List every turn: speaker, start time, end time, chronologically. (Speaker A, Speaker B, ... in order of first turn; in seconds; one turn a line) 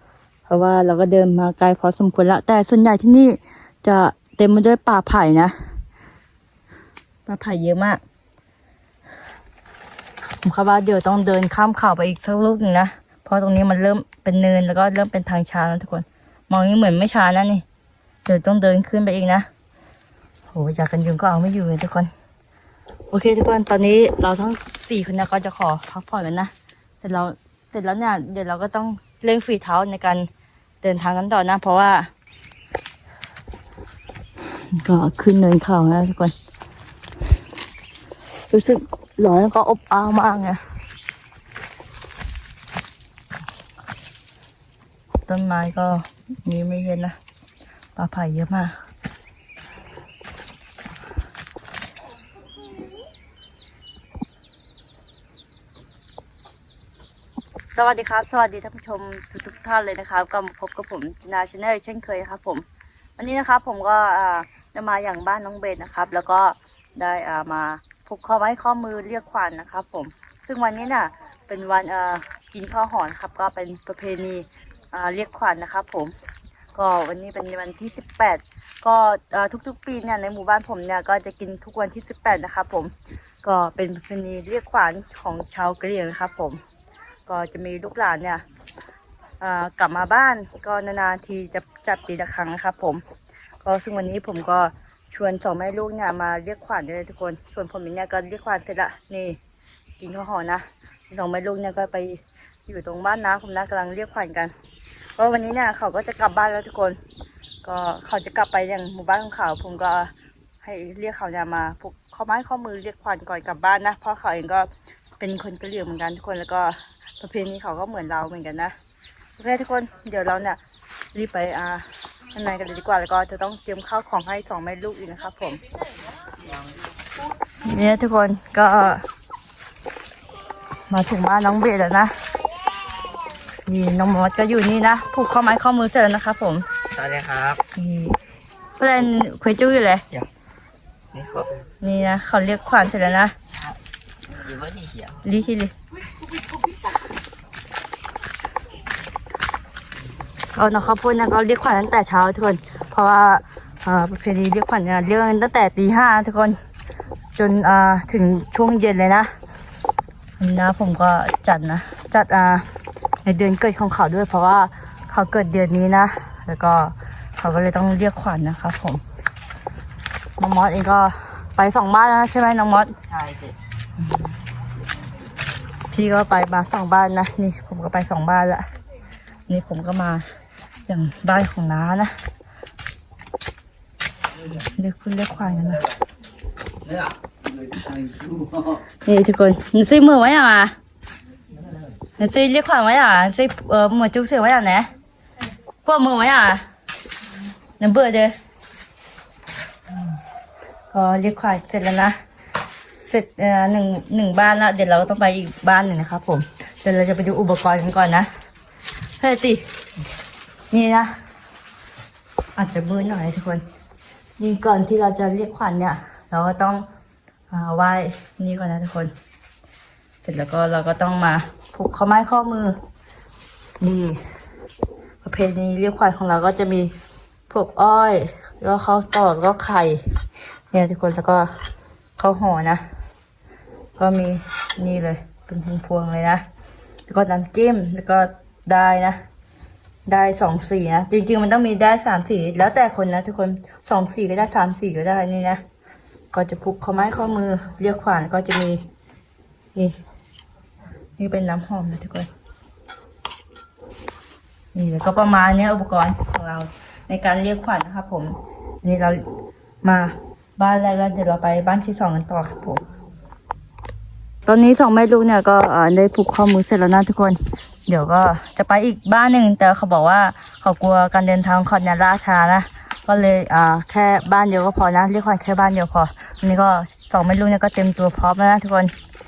Speaker A: 0.5-5.8
Speaker A: 7.2-8.0
Speaker A: 10.4-17.6
Speaker A: 18.2-19.5
Speaker A: 20.5-22.1
Speaker A: 23.1-30.3
Speaker A: 30.8-32.1
Speaker A: 34.7-36.3
Speaker A: 38.5-40.6
Speaker A: 45.3-47.1
Speaker A: 48.0-48.7
Speaker A: 57.7-62.6
Speaker A: 63.2-76.1
Speaker A: 76.7-82.9
Speaker A: 83.4-86.6
Speaker A: 87.3-88.4
Speaker A: 89.4-93.0
Speaker A: 93.6-99.4
Speaker A: 100.0-104.5
Speaker A: 105.2-107.0
Speaker A: 107.6-110.1
Speaker A: 110.6-114.7
Speaker A: 115.2-118.7
Speaker A: 119.4-120.6
Speaker A: 121.1-125.6
Speaker A: 127.6-129.1
Speaker A: 130.9-132.2
Speaker A: 133.7-136.7
Speaker B: 136.9-137.6
Speaker A: 137.7-138.2
Speaker A: 138.8-140.1
Speaker B: 141.1-141.6
Speaker A: 141.8-143.3
Speaker B: 144.3-145.2
Speaker A: 145.2-145.7
Speaker A: 150.5-156.6
Speaker A: 157.3-159.3
Speaker A: 160.4-162.7
Speaker A: 163.2-169.0
Speaker A: 170.4-173.0
Speaker B: 173.1-173.6
Speaker A: 175.9-178.7
Speaker A: 179.5-180.2
Speaker A: 180.9-182.1
Speaker A: 184.5-185.8
Speaker B: 187.7-188.6
Speaker A: 189.0-190.7
Speaker A: 192.2-194.9
Speaker A: 195.8-196.7
Speaker A: 197.8-198.3
Speaker A: 200.9-202.2
Speaker A: 203.1-208.3
Speaker A: 209.2-209.7
Speaker A: 210.7-211.2
Speaker A: 212.6-213.6
Speaker A: 214.4-216.8
Speaker A: 217.5-219.1
Speaker A: 220.2-222.8
Speaker A: 223.8-224.2
Speaker A: 225.2-226.9
Speaker A: 227.5-230.2
Speaker A: 230.7-231.5
Speaker A: 232.2-232.8
Speaker A: 233.9-236.4
Speaker A: 237.1-239.2
Speaker A: 240.1-245.6
Speaker A: 246.3-248.8
Speaker A: 251.2-252.3
Speaker A: 254.7-259.2
Speaker A: 259.8-262.8
Speaker A: 264.4-278.9